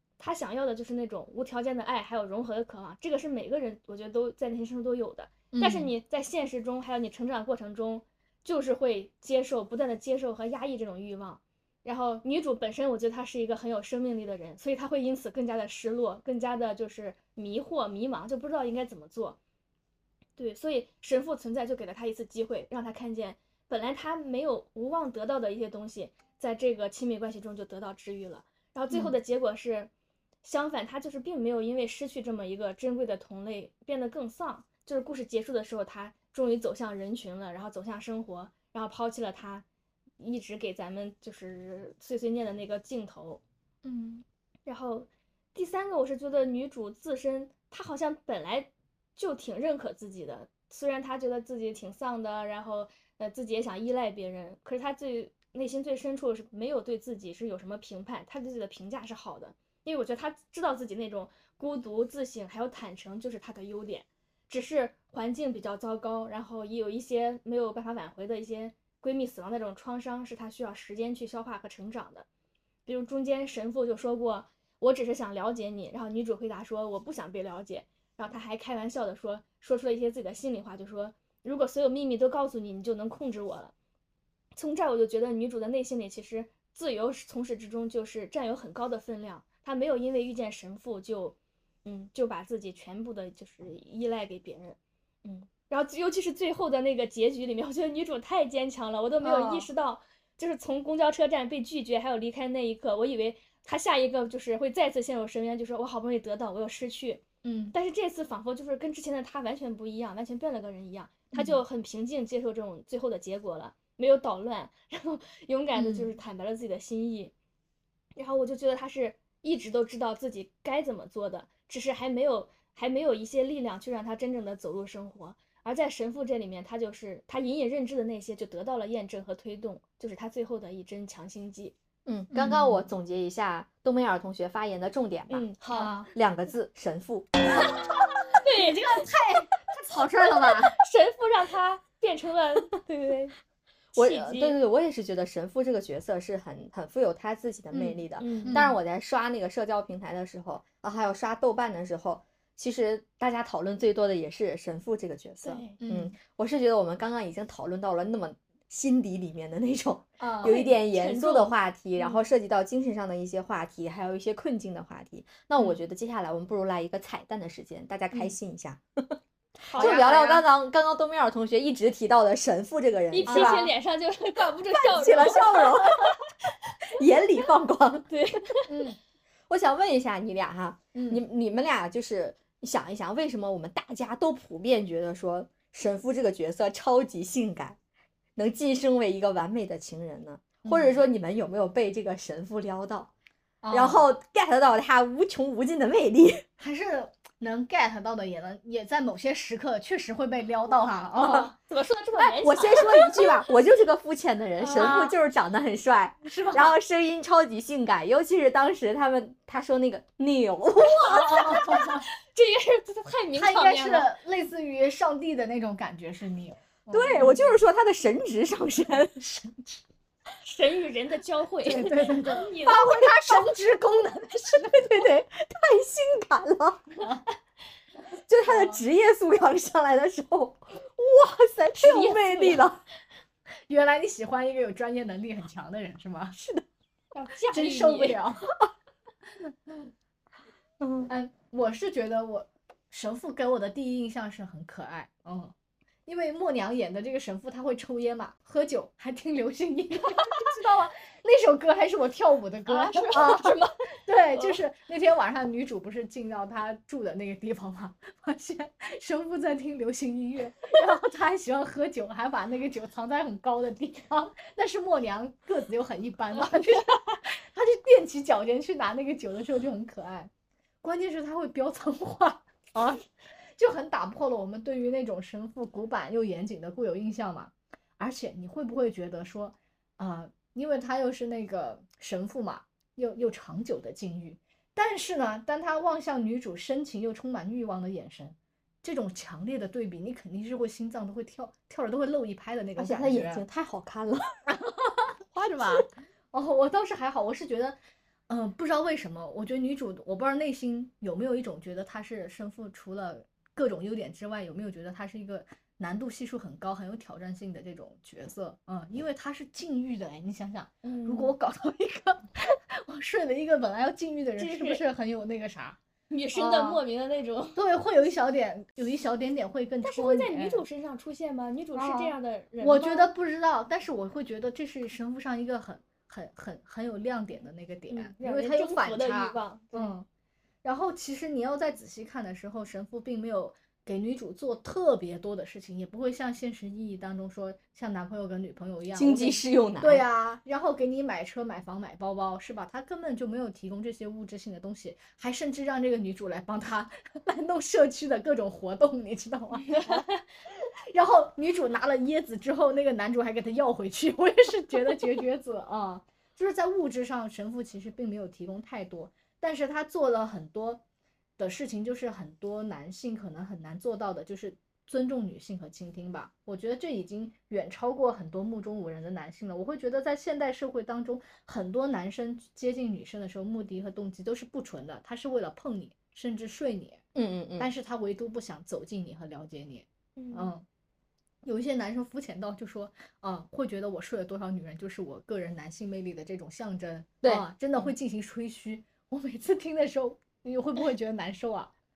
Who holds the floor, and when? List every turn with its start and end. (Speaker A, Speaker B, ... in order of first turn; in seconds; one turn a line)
Speaker A: 0.2-19.4
Speaker B: 5.5-5.9
Speaker A: 20.4-29.9
Speaker B: 28.9-29.2
Speaker A: 30.4-39.6
Speaker A: 40.2-43.4
Speaker B: 43.8-44.2
Speaker A: 44.7-72.3
Speaker A: 72.9-83.7
Speaker A: 84.5-117.3
Speaker B: 99.2-99.7
Speaker B: 107.4-107.8
Speaker B: 111.3-111.6
Speaker B: 115.8-116.1
Speaker A: 118.2-131.8
Speaker C: 132.1-135.5
Speaker B: 132.3-132.9
Speaker A: 135.3-135.9
Speaker B: 135.7-136.1
Speaker C: 136.1-137.3
Speaker A: 138.3-139.2
Speaker B: 138.9-140.8
Speaker A: 140.4-143.3
Speaker A: 143.9-144.6
Speaker C: 143.9-169.2
Speaker B: 147.7-148.8
Speaker A: 148.2-148.7
Speaker A: 155.4-155.8
Speaker B: 155.8-156.1
Speaker B: 160.2-160.6
Speaker A: 160.4-162.2
Speaker A: 169.6-170.4
Speaker B: 169.7-170.4
Speaker C: 169.8-173.6
Speaker A: 173.1-176.1
Speaker B: 173.3-173.7
Speaker C: 174.7-176.1
Speaker C: 176.9-178.1
Speaker A: 178.1-178.7
Speaker B: 178.7-179.0
Speaker C: 179.5-187.8
Speaker B: 180.9-181.2
Speaker C: 188.4-193.1
Speaker B: 190.6-191.0
Speaker B: 193.6-194.1
Speaker C: 193.7-196.4
Speaker B: 196.6-201.5
Speaker A: 201.3-203.3
Speaker C: 202.3-211.6
Speaker A: 204.6-205.1
Speaker B: 204.7-205.2
Speaker B: 206.2-206.8
Speaker A: 210.9-214.1
Speaker B: 211.1-212.1
Speaker B: 213.3-217.6
Speaker C: 216.9-219.2
Speaker B: 219.2-219.8
Speaker A: 220.4-222.9
Speaker B: 221.6-225.2
Speaker C: 224.7-226.9
Speaker C: 228.3-232.8
Speaker B: 228.4-228.8
Speaker A: 231.8-232.7
Speaker B: 233.7-236.4
Speaker C: 236.3-236.7
Speaker A: 237.1-238.2
Speaker B: 237.5-238.5
Speaker C: 240.8-241.1
Speaker B: 241.1-245.5
Speaker B: 246.1-270.3
Speaker A: 252.7-254.6
Speaker B: 270.8-273.0
Speaker B: 273.6-293.4
Speaker C: 292.8-294.4
Speaker B: 294.5-297.8
Speaker C: 295.4-295.9
Speaker B: 298.3-315.8
Speaker A: 310.8-311.3
Speaker A: 314.4-314.8
Speaker A: 316.1-317.6
Speaker B: 316.3-316.8
Speaker B: 317.6-320.6
Speaker A: 319.8-323.1
Speaker B: 321.8-330.1
Speaker A: 327.9-329.9
Speaker B: 330.6-350.1
Speaker C: 338.9-340.1
Speaker A: 349.6-350.2
Speaker B: 350.9-360.8
Speaker B: 361.4-377.1
Speaker C: 377.1-377.7
Speaker B: 377.6-380.6
Speaker A: 380.2-380.5
Speaker B: 381.4-391.7